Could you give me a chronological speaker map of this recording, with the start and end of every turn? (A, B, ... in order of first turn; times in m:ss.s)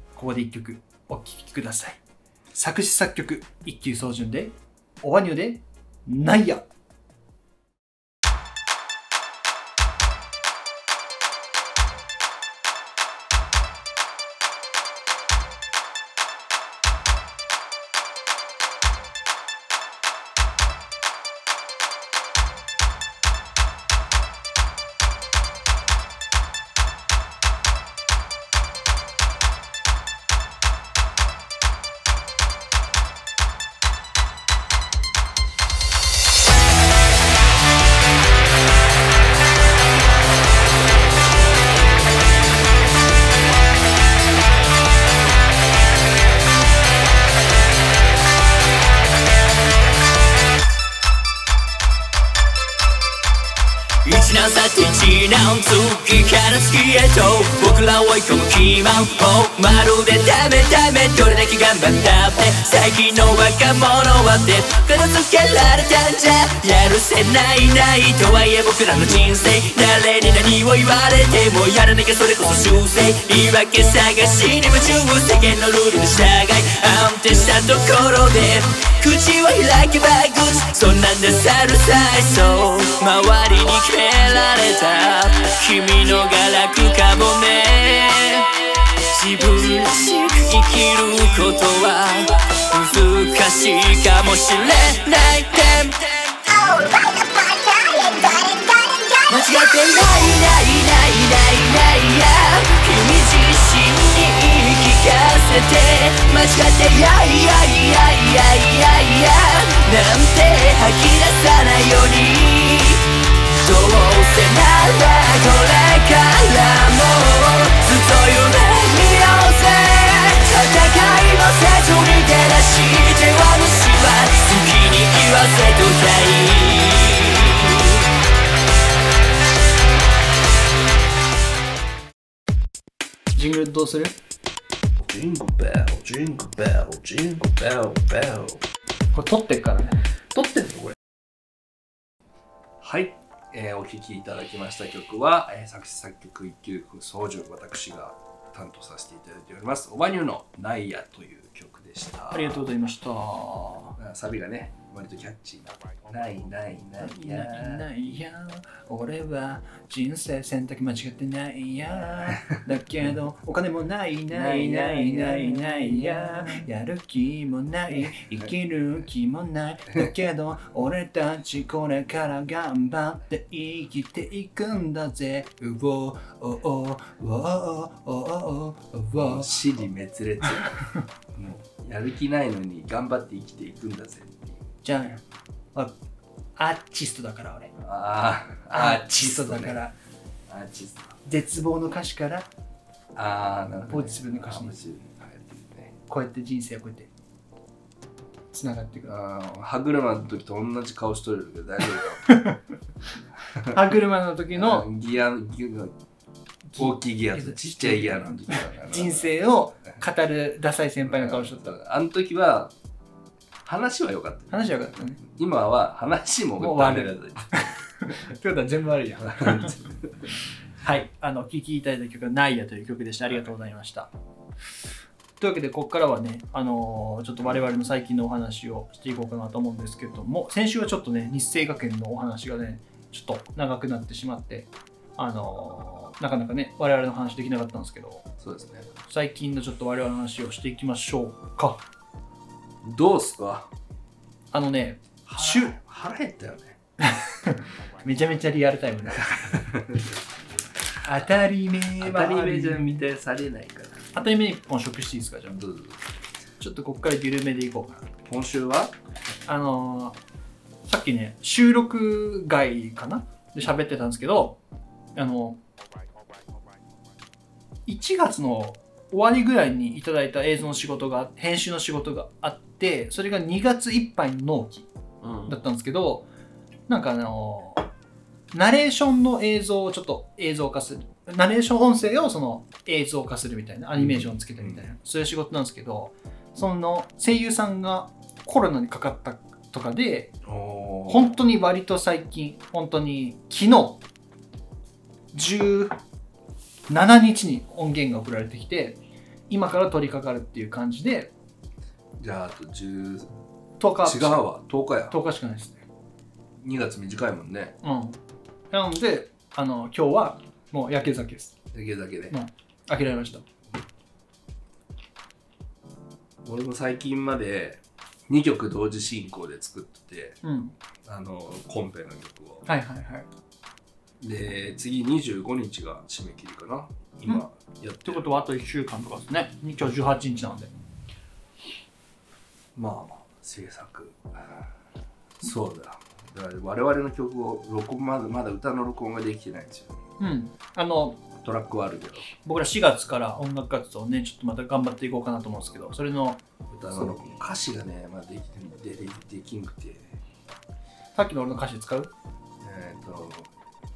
0:00.1-0:02.0 A
0:02.5-0:06.6 A
0:54.0-1:53.0 B
1:53.6-2:08.0 B
2:13.3-2:14.1 A
2:15.0-2:18.6 C
2:19.1-2:20.0 A
2:20.3-2:21.0 C
2:22.8-2:32.7 C
2:32.3-2:34.0 A
2:34.0-2:37.8 C
2:37.0-2:59.6 A
2:44.3-2:46.6 C
2:59.1-3:00.8 C
3:01.3-3:04.6 C
3:04.8-3:05.2 A
3:06.6-3:07.7 A
3:07.8-3:09.8 C
3:08.7-3:09.9 A
3:10.5-3:11.2 C
3:11.2-3:12.5 A
3:13.1-3:16.0 C
3:13.9-3:14.8 A
3:16.1-3:17.1 A
3:18.5-3:19.1 A
3:19.1-3:22.4 C
3:22.3-3:22.6 A
3:23.5-3:23.8 C
3:23.6-3:24.9 A
3:24.5-3:25.9 C
3:26.7-3:31.8 A
3:26.8-3:29.3 C
3:31.0-3:32.7 C
3:33.6-3:34.5 C
3:34.5-3:35.2 A
3:35.2-3:37.6 C
3:36.6-3:39.8 A
3:39.3-3:40.0 C
3:40.8-3:44.1 A
3:45.4-3:58.3 A
3:58.4-3:58.9 C
3:59.1-4:01.8 A
4:02.8-4:03.7 C
4:04.5-4:05.8 A
4:05.2-4:06.8 C
4:07.0-4:09.6 A
4:09.3-4:10.2 C
4:11.0-4:13.0 A
4:12.0-4:14.0 C
4:14.1-4:15.6 A
4:15.6-4:16.0 C
4:16.6-4:18.1 A
4:18.2-4:18.9 C
4:19.4-4:20.2 A
4:20.8-4:24.6 A
4:25.1-4:25.6 A
4:27.9-4:34.9 A
4:35.2-4:35.5 C
4:35.4-4:36.3 A
4:36.9-4:37.9 A
4:38.5-4:50.4 A
4:44.0-4:44.9 C
4:50.4-4:51.3 C
4:51.1-4:54.0 A
4:55.3-4:55.9 A
4:56.9-5:01.3 A
5:02.2-5:03.3 C
5:03.8-5:04.5 A
5:04.0-5:05.1 C
5:05.1-5:05.8 A
5:06.6-5:07.8 C
5:07.8-5:08.2 A
5:08.7-5:11.5 A
5:11.7-5:12.3 C
5:12.3-5:13.4 A
5:16.4-5:20.4 C
5:20.4-5:20.7 A
5:21.0-5:22.6 C
5:22.6-5:23.3 A
5:24.2-5:28.4 C
5:28.0-5:30.7 A
5:32.7-5:34.6 C
5:35.4-5:39.9 C
5:40.2-5:41.2 A
5:41.4-5:42.3 C
5:42.4-5:46.4 A
5:46.7-5:50.2 C
5:51.1-5:52.1 A
5:52.6-5:53.5 C